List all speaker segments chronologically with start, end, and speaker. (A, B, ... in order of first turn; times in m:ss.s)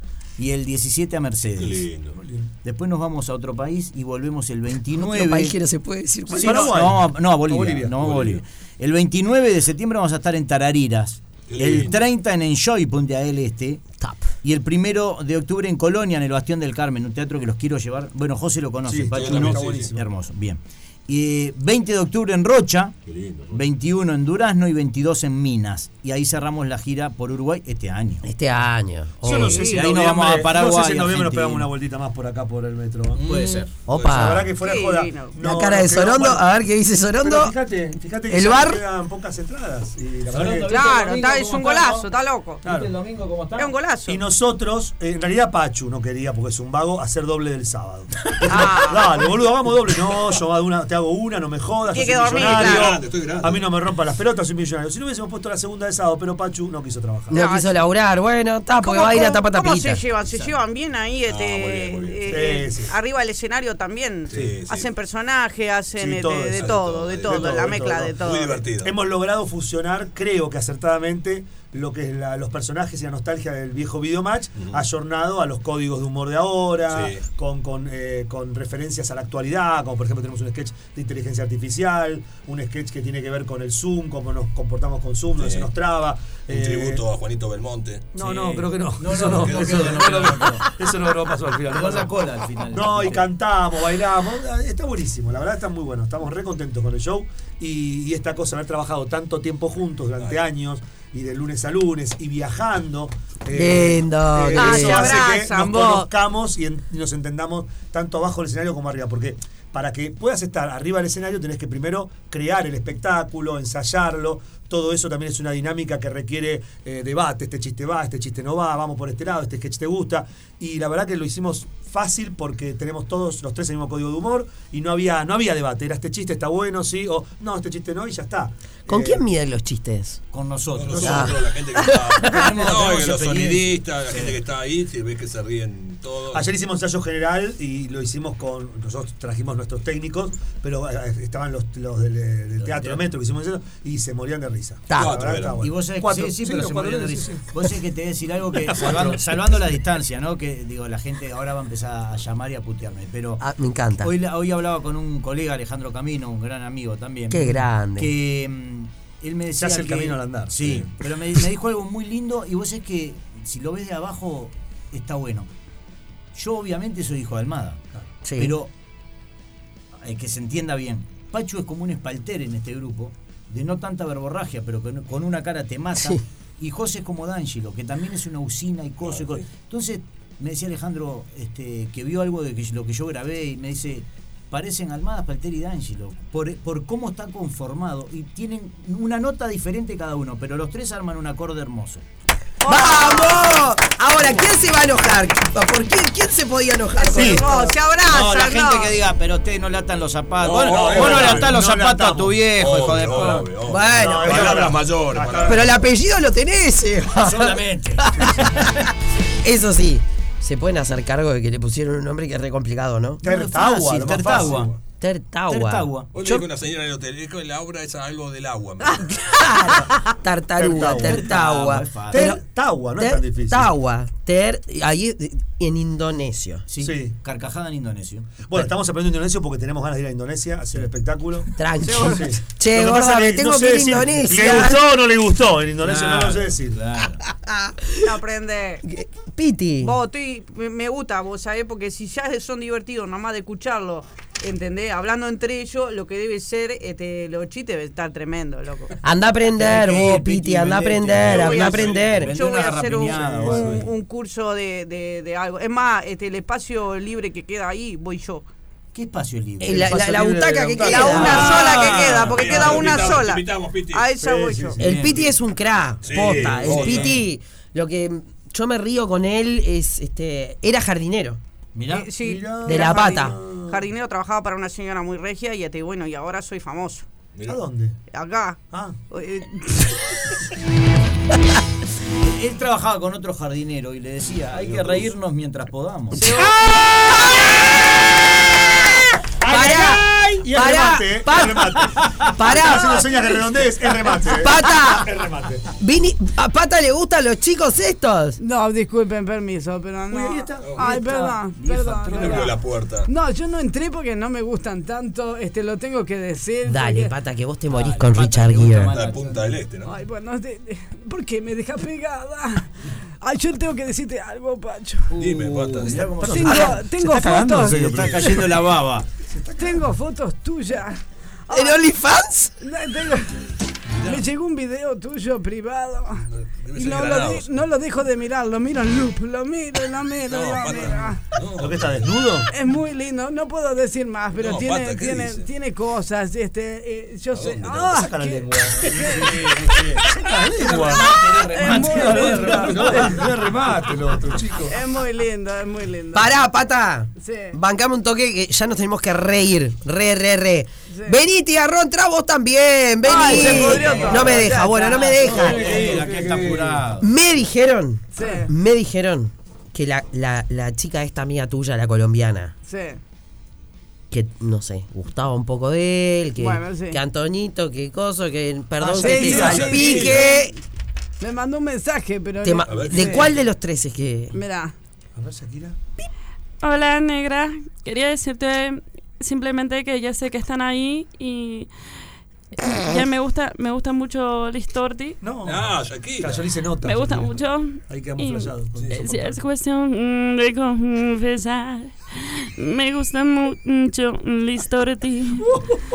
0:00.4-0:01.9 A
0:01.6-0:02.2 B
0:02.2-0:02.5 C
0:02.6-0:05.5 A
0:04.9-0:06.8 D
0:06.3-0:08.1 C
0:06.3-0:13.9 A
0:08.0-0:08.4 B
0:11.5-0:12.0 B
0:14.0-0:14.3 D
0:14.4-0:23.0 A
0:18.8-0:20.1 C
0:19.1-0:19.9 B
0:23.1-0:23.6 B
0:23.5-0:28.3 A
0:28.2-0:29.7 D
0:29.2-0:33.2 C
0:29.2-0:31.7 A
0:33.1-0:34.3 B
0:33.2-0:33.7 A
0:33.9-0:34.5 D
0:34.1-0:36.5 C
0:34.6-0:35.3 E
0:35.4-0:37.5 D
0:37.2-0:41.0 C
0:38.3-0:38.8 D
0:40.3-0:41.9 A
0:40.6-0:42.6 E
0:41.6-0:42.0 C
0:42.6-0:42.9 C
0:42.6-0:43.7 A
0:43.6-0:44.2 E
0:44.1-0:57.4 C
0:48.4-0:49.2 E
0:51.9-0:53.0 E
0:52.3-0:53.6 B
0:57.3-1:00.0 D
0:57.3-0:57.7 E
0:58.8-1:08.6 E
1:00.3-1:00.6 A
1:01.2-1:02.6 B
1:02.3-1:02.9 C
1:04.3-1:04.9 B
1:06.0-1:08.2 C
1:06.6-1:07.4 B
1:08.2-1:08.9 B
1:08.8-1:27.0 C
1:14.6-1:14.8 B
1:16.9-1:17.2 B
1:25.4-1:25.7 B
1:26.5-1:28.1 B
1:28.1-2:09.2 C
1:28.2-1:30.7 A
1:29.1-1:30.5 B
1:31.7-1:33.3 A
1:43.5-1:45.2 D
1:44.5-1:46.1 E
2:08.9-2:10.2 D
2:10.3-2:11.3 A
2:10.7-2:16.5 B
2:10.9-2:11.3 C
2:11.0-2:12.4 D
2:12.2-2:14.4 A
2:16.3-2:27.7 C
2:22.6-2:23.1 A
2:24.9-2:25.1 D
2:24.9-2:25.6 B
2:25.6-2:33.4 A
2:28.6-2:29.4 C
2:33.4-2:34.1 D
2:34.0-2:45.5 A
2:37.3-2:38.1 D
2:39.6-2:40.9 C
2:46.3-2:47.8 A
2:48.2-2:48.5 D
2:48.4-2:48.7 A
2:50.0-3:12.0 A
2:59.0-2:59.5 B
3:12.6-3:13.6 E
3:12.6-3:17.7 D
3:17.0-3:18.9 E
3:17.1-3:17.7 C
3:18.0-3:23.7 A
3:20.4-3:21.6 B
3:20.7-3:22.4 C
3:22.5-3:25.8 B
3:23.7-3:24.7 D
3:23.9-3:25.7 C
3:25.4-3:28.7 D
3:27.2-3:28.7 A
3:29.4-3:33.2 D
3:33.2-3:34.7 C
3:33.2-3:34.7 A
3:34.2-3:34.8 B
3:35.0-3:36.5 D
3:35.5-3:36.1 A
3:36.1-3:39.0 B
3:39.2-3:42.4 D
3:40.6-3:41.3 C
3:40.9-3:42.3 A
3:42.1-3:43.7 C
3:43.0-3:46.6 D
3:46.7-3:48.7 A
3:46.8-3:47.1 C
3:48.4-3:56.8 C
3:51.6-3:54.8 D
3:51.8-3:52.2 E
3:55.8-3:57.2 A
3:57.3-3:58.1 D
3:58.0-3:58.8 E
3:58.8-3:59.9 D
3:59.8-4:08.9 E
4:09.0-4:12.3 D
4:09.5-4:13.9 A
4:11.2-4:12.0 B
4:11.3-4:18.4 E
4:13.0-4:13.9 C
4:18.9-4:20.1 A
4:19.6-4:21.6 D
4:19.7-4:23.2 C
4:20.8-4:24.8 E
4:21.2-4:24.0 B
4:21.3-4:21.9 A
4:24.2-4:24.8 C
4:24.8-4:31.4 D
4:24.8-4:25.4 A
4:26.0-4:27.2 B
4:26.1-4:27.2 A
4:31.7-4:32.1 A
4:31.9-4:37.1 E
4:32.2-4:33.8 C
4:32.6-4:33.4 D
4:37.4-4:38.0 C
4:38.1-4:38.6 E
4:39.1-4:40.0 E
4:42.2-4:46.2 A
4:44.6-4:45.1 B
4:46.2-4:47.3 E
4:46.2-4:47.4 D
4:49.4-4:55.7 C
4:49.5-4:51.8 D
4:52.4-4:53.1 D
4:52.9-4:53.2 E
4:54.3-4:55.1 D
4:55.8-4:58.4 D
4:58.4-5:02.5 E
5:00.1-5:00.8 C
5:00.8-5:02.6 A
5:02.1-5:03.1 B
5:03.1-5:07.1 E
5:06.6-5:08.9 D
5:07.7-5:09.6 A
5:08.8-5:10.0 B
5:09.8-5:12.7 E
5:13.2-5:15.1 E
5:15.1-5:16.8 A
5:15.2-5:16.2 B
5:16.2-5:18.5 C
5:16.2-5:18.3 E
5:17.5-5:19.1 A
5:19.3-5:19.9 C
5:19.6-5:21.8 E
5:21.5-5:22.5 D
5:22.6-5:23.4 E
5:23.9-5:24.2 B
5:24.0-5:31.2 E
5:26.2-5:27.6 B
5:30.3-5:32.1 B
5:31.6-5:32.5 C
5:32.5-5:39.4 E
5:34.4-5:35.5 B
5:37.3-5:38.1 B
5:37.8-5:44.8 C
5:38.9-5:43.3 A
5:40.8-5:43.2 E
5:44.7-5:46.4 E
5:46.1-5:55.7 D
5:47.2-5:47.5 E
5:50.9-5:51.2 E
5:53.0-5:55.4 E
5:53.1-5:54.6 A
5:55.2-5:56.8 C
5:55.2-5:57.1 A
5:57.0-6:02.5 D
5:58.2-5:58.5 E
6:02.6-6:03.0 E
6:04.1-6:10.5 D
6:06.4-6:07.0 E
6:08.8-6:10.2 C
6:09.1-6:10.3 B
6:09.3-6:10.3 E
6:11.2-6:13.3 E
6:12.4-6:14.4 D
6:12.6-6:13.2 B
6:14.3-6:14.7 E
6:15.1-6:15.8 C
6:16.6-6:21.7 F
6:22.6-6:25.2 F
6:25.2-6:29.4 C
6:25.4-6:26.4 B
6:26.8-6:35.6 F